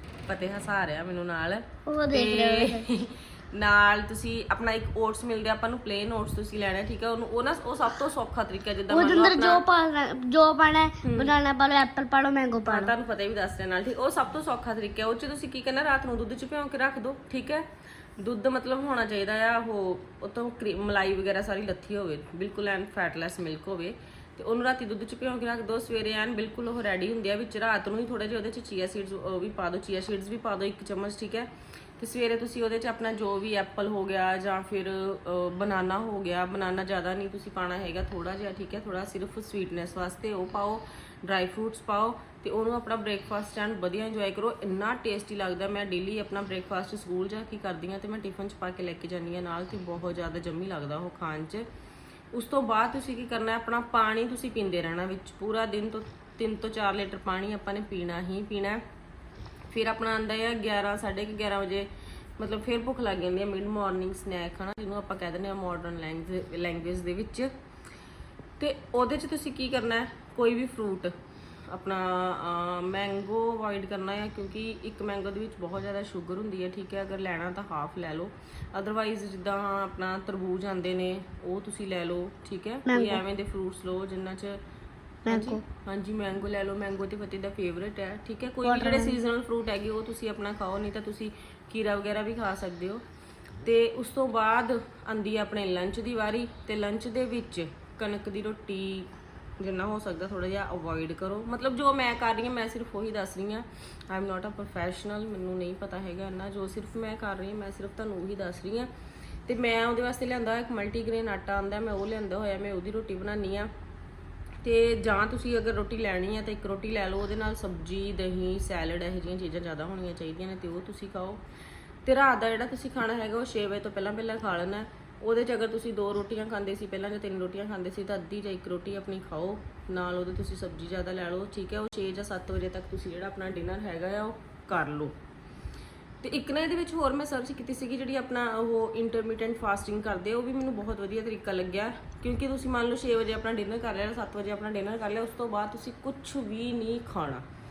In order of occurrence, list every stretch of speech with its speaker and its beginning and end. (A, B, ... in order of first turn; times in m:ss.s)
0:00.2-0:09.6 A
0:01.8-0:02.8 B
0:08.9-0:12.9 B
0:11.0-0:11.3 A
0:12.6-0:17.6 A
0:18.2-0:51.6 A
0:52.3-0:58.8 A
0:59.7-1:07.5 A
1:08.6-1:11.1 A
1:11.7-1:24.6 A
1:22.9-1:23.2 B
1:25.2-1:25.6 B
1:25.3-1:33.0 A
1:28.6-1:29.1 B
1:33.6-1:48.9 A
1:49.4-1:53.7 A
1:54.6-2:01.4 A
2:02.0-2:15.1 A
2:16.2-2:27.4 A